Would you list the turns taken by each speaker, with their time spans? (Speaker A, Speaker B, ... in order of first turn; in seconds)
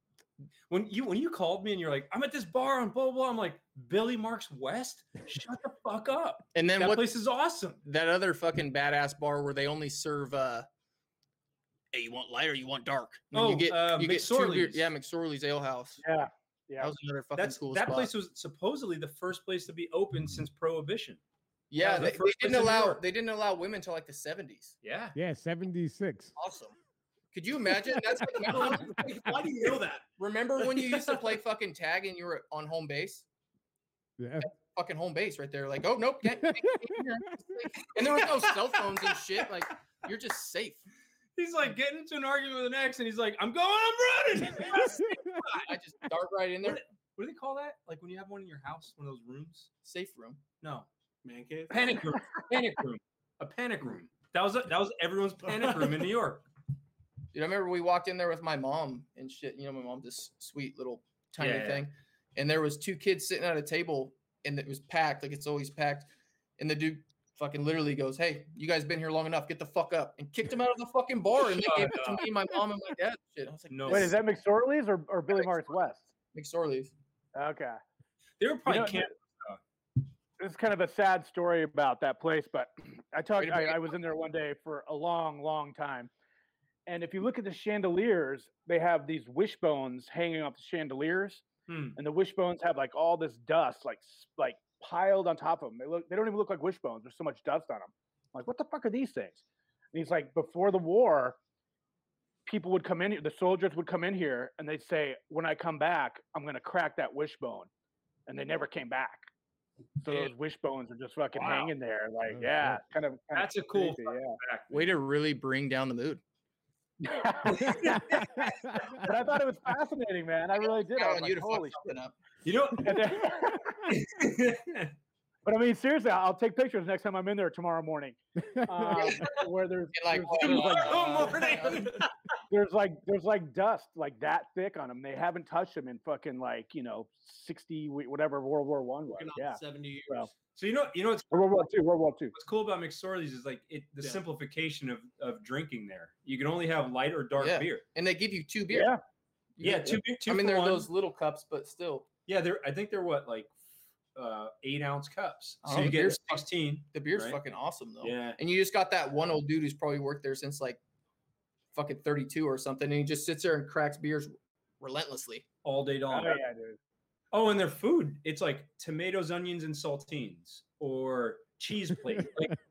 Speaker A: 0.7-7.8, 13.3-14.9, 17.4-21.2, 21.8-23.0, 24.8-25.1, 41.4-45.7, 46.6-49.7, 50.6-50.9, 51.7-56.4, 61.4-61.8, 71.4-72.3, 73.7-74.1, 78.4-79.6, 91.7-92.0, 111.4-111.6, 113.3-114.7, 117.5-118.5, 122.4-123.3, 123.8-124.9, 130.3-132.0, 140.6-141.4, 142.3-147.8, 149.6-150.9, 152.3-153.5, 154.1-157.4, 158.0-158.4, 165.6-166.4, 167.3-172.6
Speaker B: 6.5-7.1, 7.8-10.7, 11.9-16.0, 16.8-18.1, 21.7-24.7, 26.4-26.8, 27.3-29.0, 30.2-33.2, 34.4-40.8, 45.6-46.8, 49.8-50.4, 57.3-74.2, 75.3-75.7, 76.3-76.9, 83.4-83.9, 114.7-116.2, 120.6-122.1, 129.0-129.3, 129.9-131.9, 147.4-148.9, 149.6-152.1, 155.6-160.8, 161.7-165.4
Speaker C: 16.0-16.9, 73.9-76.1, 77.3-77.8, 78.7-79.1, 80.4-86.1, 86.9-91.4, 92.0-99.4, 99.9-101.4, 102.5-107.7, 108.3-109.3, 110.0-114.4, 117.0-118.1, 118.9-121.8, 122.8-123.8, 125.4-131.5, 132.5-140.3, 141.3-142.3, 148.7-149.0, 166.1-166.8
Speaker D: 25.1-26.3, 27.8-29.4, 34.2-34.5, 36.2-37.7, 44.6-45.4, 112.3-112.8, 117.8-118.9, 128.6-128.8, 172.1-172.4
Speaker E: 28.4-31.2, 51.2-52.1, 130.6-132.1, 139.1-140.3